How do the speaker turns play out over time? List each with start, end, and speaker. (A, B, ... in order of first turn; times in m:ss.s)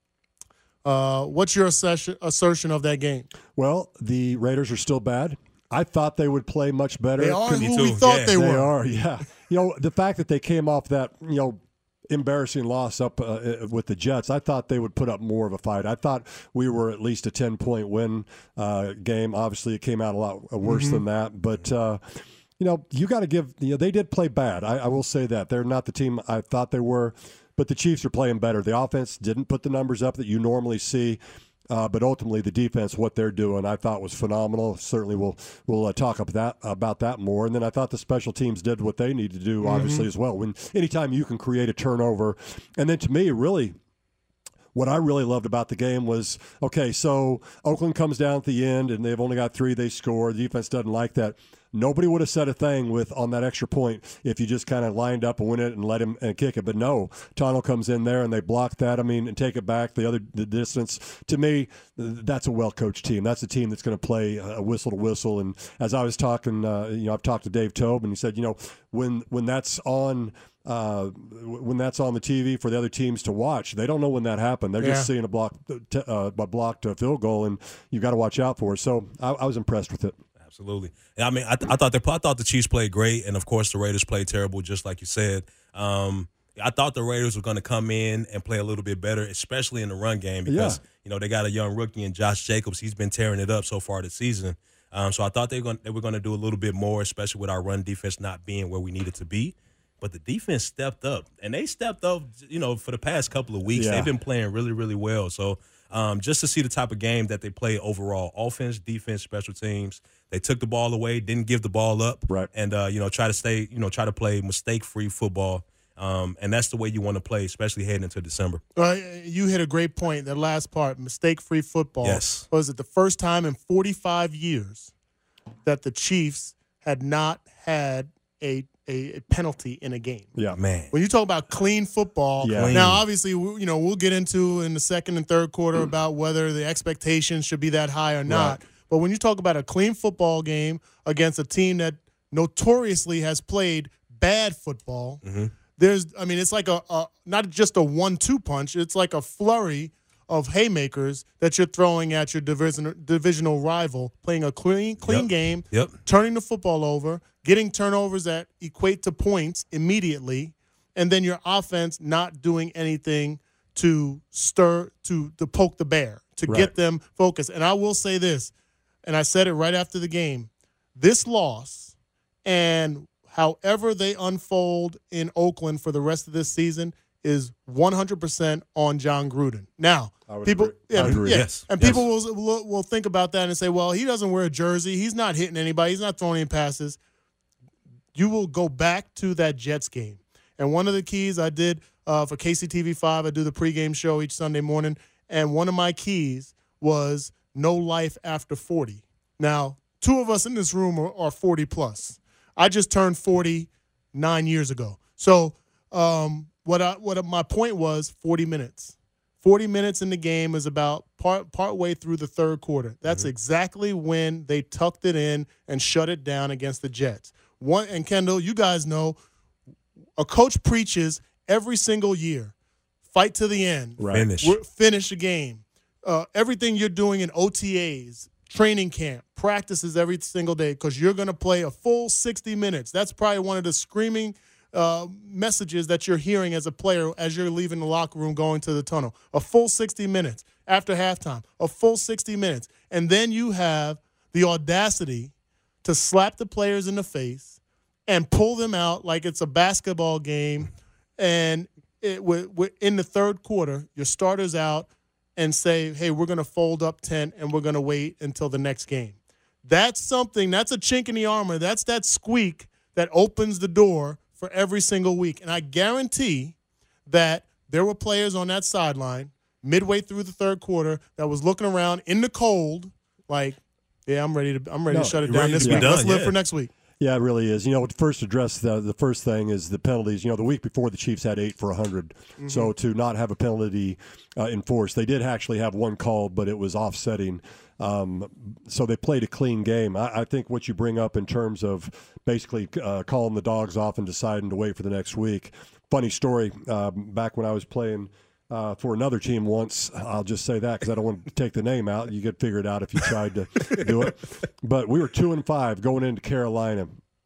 0:00.8-0:03.3 A
0:03.6-0:07.7 B
0:07.2-0:08.7 A
0:07.6-0:08.4 C
0:08.3-0:43.8 B
0:20.6-0:21.0 A
0:39.6-0:40.1 A
0:44.7-1:20.2 B
1:14.8-1:15.1 A
1:20.4-1:58.6 C
1:30.5-1:30.8 B
1:43.7-1:44.1 B
1:58.8-2:04.9 A
2:02.0-2:02.5 C
2:05.6-2:10.3 A
2:10.5-2:10.9 C
2:10.9-2:25.2 A
2:12.4-2:12.8 B
2:12.4-2:13.0 C
2:18.3-2:18.6 B
2:25.2-2:25.5 C
2:25.8-2:48.5 A
2:35.0-2:36.0 C
2:46.5-2:46.7 B
2:49.0-2:51.9 A
2:52.4-3:07.0 A
3:00.3-3:02.0 B
3:01.0-3:02.0 C
3:08.2-3:39.2 A
3:40.2-3:42.5 A
3:43.1-4:05.3 A
3:44.0-3:44.3 B
3:44.1-3:44.6 C
4:05.8-4:07.6 A
4:08.1-4:26.6 A
4:27.1-4:36.7 A
4:34.9-4:36.0 B
4:35.2-4:36.4 C
4:37.0-5:07.0 B
4:42.4-4:42.7 A